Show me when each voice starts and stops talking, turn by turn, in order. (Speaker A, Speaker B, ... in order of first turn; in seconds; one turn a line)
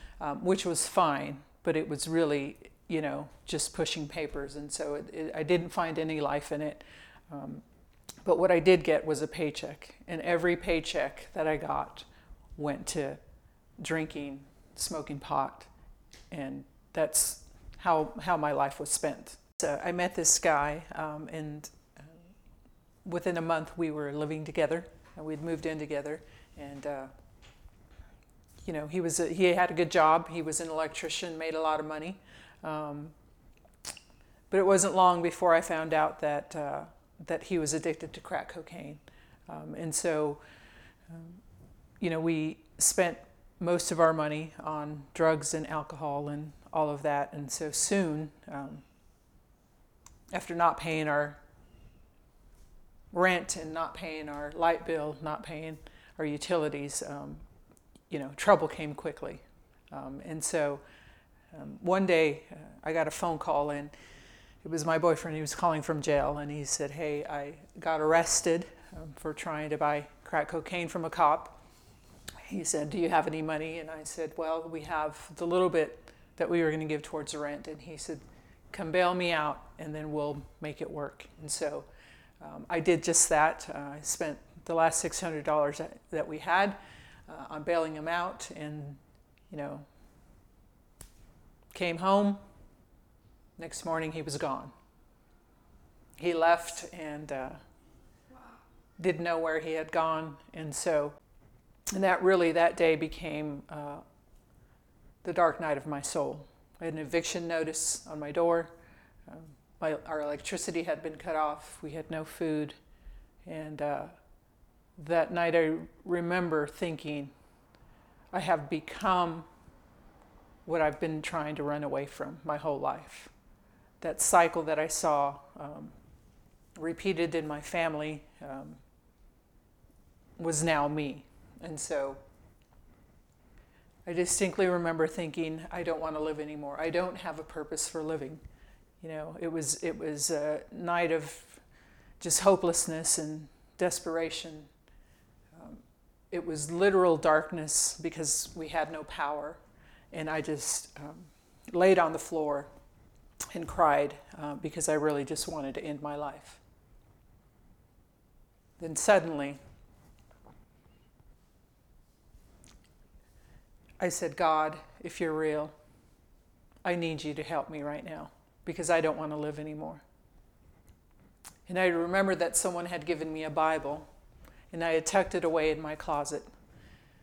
Speaker A: 0.2-7.6
Speaker A: 8.2-13.2
Speaker A: 13.8-15.7
Speaker A: 16.3-22.1
Speaker A: 23.1-27.1
Speaker A: 28.6-33.1
Speaker A: 34.5-40.4
Speaker A: 41.1-41.4
Speaker A: 42.0-48.8
Speaker A: 50.3-51.4
Speaker A: 53.1-57.4
Speaker A: 58.1-60.8
Speaker A: 61.5-63.9
Speaker A: 64.6-71.6
Speaker A: 72.5-81.9
Speaker A: 82.4-89.9
Speaker A: 91.7-92.4
Speaker A: 93.6-94.7
Speaker A: 96.2-97.6
Speaker A: 99.0-101.2
Speaker A: 101.9-104.0
Speaker A: 105.2-108.7
Speaker A: 109.3-112.8
Speaker A: 113.5-114.1
Speaker A: 115.0-117.3
Speaker A: 118.3-119.5
Speaker A: 120.7-123.3
Speaker A: 124.0-125.9
Speaker A: 126.8-128.8
Speaker A: 130.4-132.2
Speaker A: 134.1-138.4
Speaker A: 139.0-141.6
Speaker A: 142.2-144.7
Speaker A: 145.5-149.6
Speaker A: 150.1-152.7
Speaker A: 153.5-156.6
Speaker A: 158.8-159.6
Speaker A: 164.0-165.7
Speaker A: 166.8-170.0
Speaker A: 171.7-174.1
Speaker A: 174.7-176.5